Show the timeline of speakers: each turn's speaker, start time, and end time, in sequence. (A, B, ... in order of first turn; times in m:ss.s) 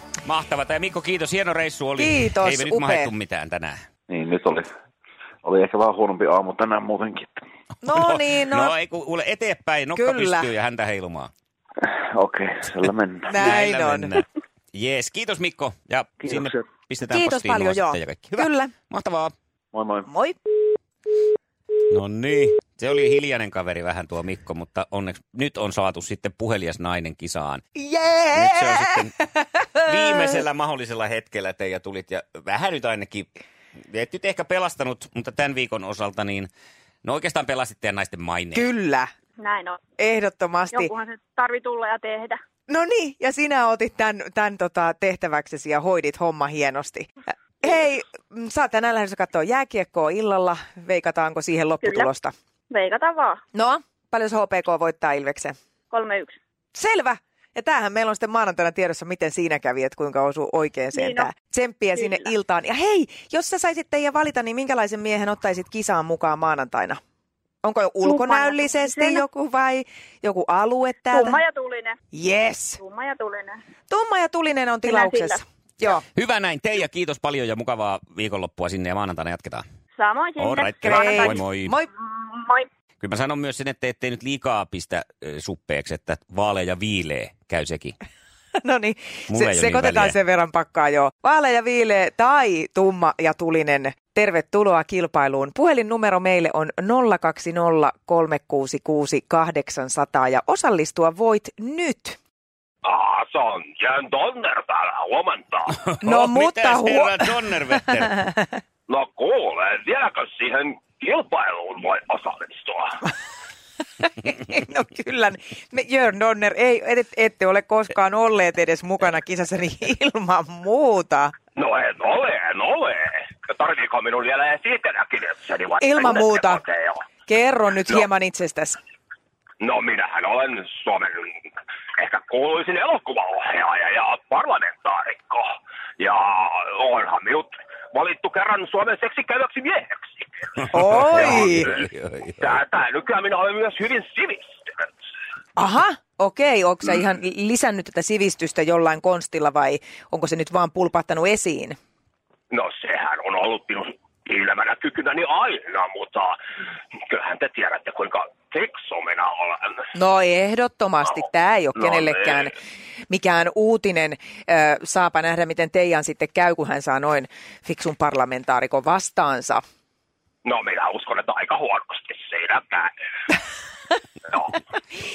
0:00.2-0:03.8 A
0:02.0-0:03.1 B
0:04.1-0:04.7 C
0:05.4-0:07.4 C
0:07.8-0:08.7 B
0:07.9-0:11.3 A
0:10.0-0:10.5 B
0:11.9-0:13.4 C
0:13.3-0:14.1 B
0:13.3-0:19.3 A
0:16.2-0:16.6 C
0:17.1-0:18.7 B
0:19.7-0:20.1 C
0:20.1-0:20.4 B
0:21.9-0:27.6 A
0:27.8-0:29.0 B
0:28.3-0:29.1 A
0:29.8-0:33.3 A
0:33.9-0:36.5 A
0:37.0-0:38.7 A
0:38.5-0:39.1 B
0:39.4-0:39.8 D
0:40.0-0:40.9 B
0:40.7-0:42.4 D
0:42.7-0:47.1 B
0:47.6-0:52.3 B
0:51.8-0:52.1 D
0:52.7-0:53.4 D
0:53.5-0:55.5 B
0:55.9-0:56.3 D
0:56.7-1:07.0 B
1:00.9-1:01.3 D
1:01.9-1:02.3 D
1:07.6-1:11.4 B
1:08.0-1:09.2 D
1:11.1-1:12.0 D
1:12.1-1:12.8 B
1:12.8-1:13.6 D
1:13.9-1:16.0 B
1:14.8-1:15.4 D
1:16.1-1:19.6 A
1:20.0-1:21.4 D
1:20.4-1:21.8 A
1:20.8-1:21.9 B
1:22.1-1:22.7 D
1:23.0-1:28.0 A
1:28.6-1:42.2 B
1:29.3-1:30.2 A
1:42.8-1:45.8 E
1:45.7-1:48.3 A
1:46.0-1:48.5 B
1:48.9-1:53.0 E
1:54.0-2:01.3 B
2:01.6-2:07.0 E
2:05.8-2:06.6 B
2:07.2-2:08.8 B
2:09.6-2:21.8 E
2:20.6-2:22.6 A
2:20.7-2:21.7 B
2:22.4-2:24.9 E
2:25.6-2:31.8 B
2:32.5-2:36.3 E
2:37.0-2:39.8 E
2:39.9-2:42.5 B
2:41.8-2:42.5 E
2:43.1-2:49.6 B
2:50.4-2:52.9 E
2:54.3-2:54.6 E